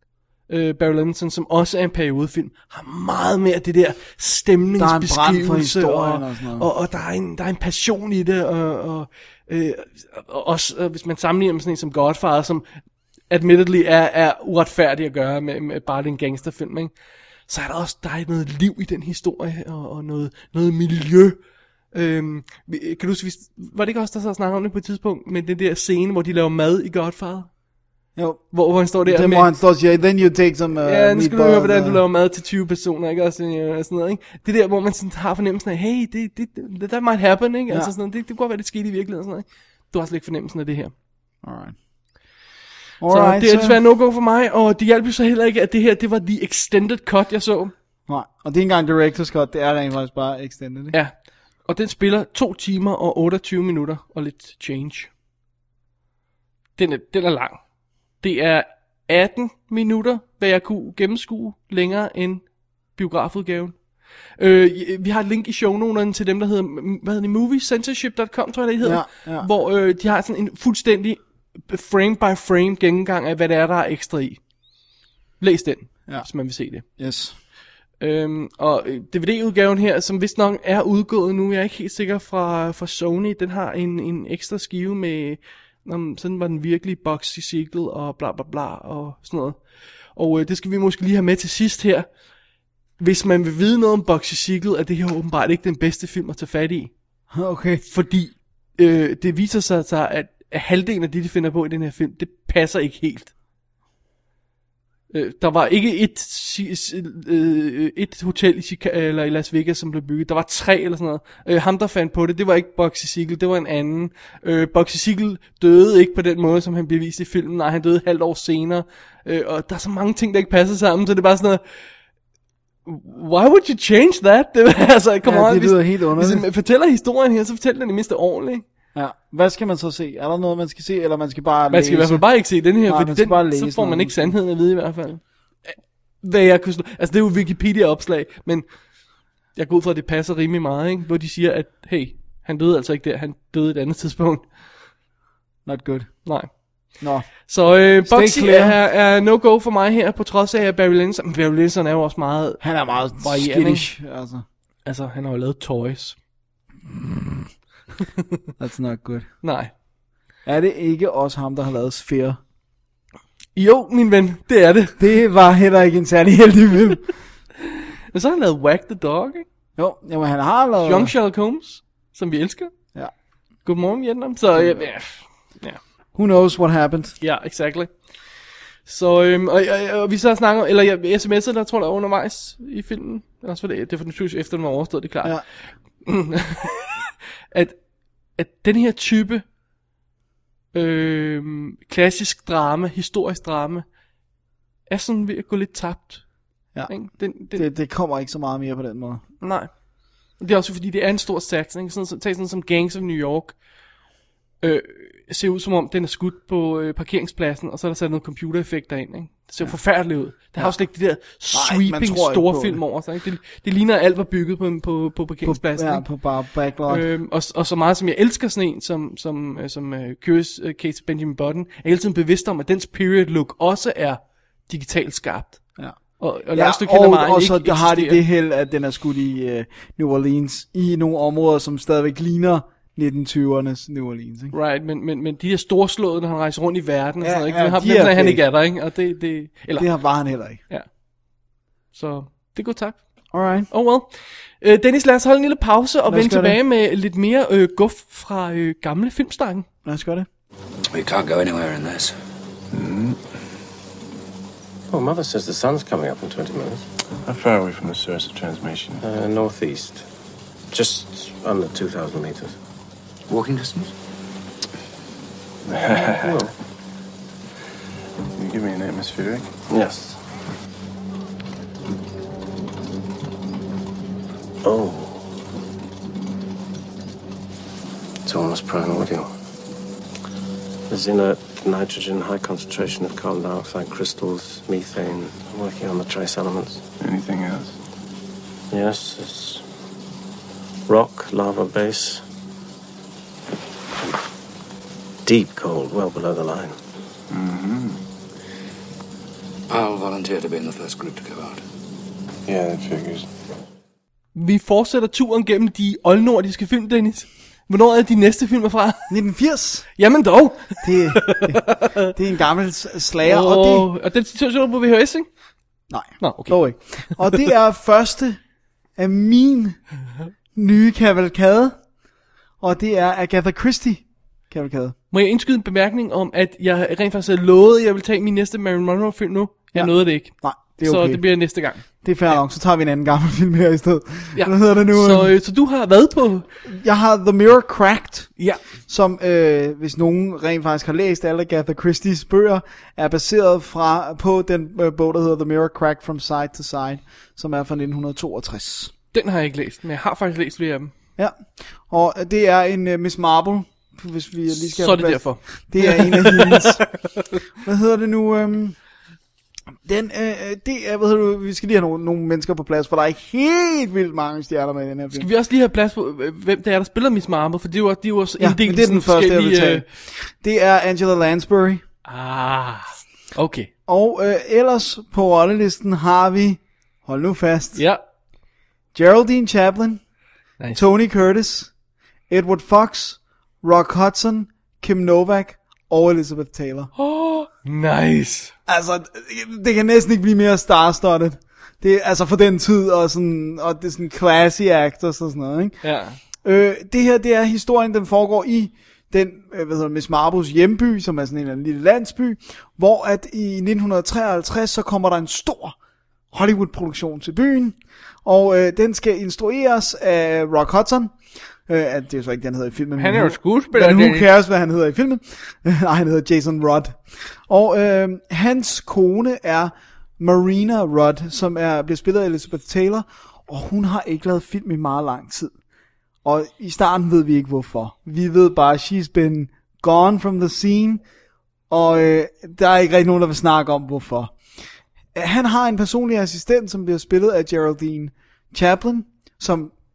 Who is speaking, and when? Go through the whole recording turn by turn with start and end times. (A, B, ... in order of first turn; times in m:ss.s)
0:00.5-0:12.6 A
0:04.8-0:06.7 B
0:13.3-0:16.9 A
0:17.5-0:21.4 A
0:21.9-0:27.5 A
0:28.2-0:32.0 B
0:28.5-0:29.5 A
0:30.8-0:40.9 A
0:41.4-0:41.8 B
0:43.0-0:43.8 B
0:43.1-0:47.7 A
0:48.1-0:50.9 B
0:51.6-0:55.1 A
0:56.8-0:57.6 A
0:58.2-1:03.8 A
1:04.4-1:14.4 A
1:08.8-1:09.5 B
1:15.4-1:16.8 A
1:17.0-1:17.3 B
1:18.0-1:29.6 A
1:30.1-1:32.1 A
1:33.0-1:36.9 A
1:37.3-1:37.8 B
1:37.8-1:43.3 A
1:45.1-2:01.6 A
2:02.8-2:08.6 A
2:05.2-2:06.4 B
2:08.9-2:14.3 B
2:11.7-2:18.7 A
2:19.5-2:24.5 A
2:25.6-2:26.3 B
2:26.2-2:26.5 A
2:27.0-2:28.8 B
2:27.4-2:33.9 A
2:32.6-2:34.4 B
2:34.8-2:36.2 A
2:38.6-2:39.3 B
2:39.4-2:39.7 A
2:40.4-2:42.4 B
2:43.5-2:45.0 A
2:45.0-2:47.0 B
2:47.6-2:49.4 A
2:49.8-2:51.1 B
2:50.8-2:52.7 A
2:53.6-2:55.8 A
2:54.5-2:54.9 B
2:56.2-2:57.2 B
2:57.2-2:57.9 A
2:58.8-3:05.4 A
3:06.0-3:07.0 A
3:07.5-3:07.8 A
3:08.4-3:09.4 A
3:10.7-3:13.8 A
3:14.9-3:16.2 A
3:16.7-3:19.2 B
3:16.9-3:17.6 A
3:19.4-3:19.7 A
3:20.4-3:23.6 A
3:24.6-3:36.0 A
3:31.5-3:32.8 B
3:35.4-3:37.0 B
3:36.9-3:45.6 A
3:46.2-3:48.2 A
3:46.5-3:54.5 B
3:54.5-3:59.9 A
3:57.2-3:58.4 B
3:59.8-4:00.6 B
4:01.9-4:03.1 A
4:03.3-4:03.7 B
4:03.7-4:09.6 A
4:06.1-4:06.6 B
4:09.8-4:10.3 B
4:10.9-4:12.1 C
4:12.7-4:13.2 D
4:14.9-4:16.9 E
4:17.2-4:19.0 D
4:19.0-4:20.0 E
4:20.7-4:22.6 E
4:23.3-4:23.9 C
4:25.7-4:26.4 D
4:25.9-4:26.5 E
4:28.4-4:29.5 D
4:29.7-4:30.2 E
4:34.6-4:35.3 E
4:38.2-4:39.3 E
4:40.9-4:46.8 E
4:47.0-4:47.8 D
4:48.7-4:49.6 E
4:50.9-4:52.2 E
4:55.2-4:56.8 E
4:57.3-4:58.0 D
4:59.7-5:01.6 C
5:02.4-5:03.2 D
5:04.3-5:09.1 A
5:09.1-5:09.9 B
5:10.0-5:12.1 A
5:10.8-5:13.9 B
5:13.2-5:15.3 A
5:15.9-5:18.4 B
5:16.2-5:17.4 A
5:19.0-5:19.8 B
5:20.5-5:21.8 B
5:22.6-5:25.0 B
5:25.1-5:31.8 A
5:29.7-5:31.2 B
5:31.9-5:35.3 B
5:34.3-5:36.4 A
5:36.6-5:38.3 B
5:38.9-5:48.9 B
5:49.1-5:50.9 A
5:51.2-5:56.8 B
5:54.5-5:57.4 A
5:57.6-5:58.8 B
5:59.8-6:05.3 B
6:05.1-6:09.8 A
6:08.4-6:11.8 B
6:12.0-6:13.7 A
6:13.9-6:17.8 B
6:17.7-6:18.0 A
6:18.9-6:20.0 B
6:20.7-6:21.7 B
6:22.3-6:26.9 B
6:27.0-6:28.5 A
6:28.7-6:35.8 B
6:35.8-6:36.2 A
6:36.4-6:45.7 B
6:46.3-6:51.1 B
6:51.7-7:05.5 B
6:53.0-6:54.3 A
7:06.2-7:11.0 B
7:11.7-7:14.3 B
7:15.1-7:19.7 B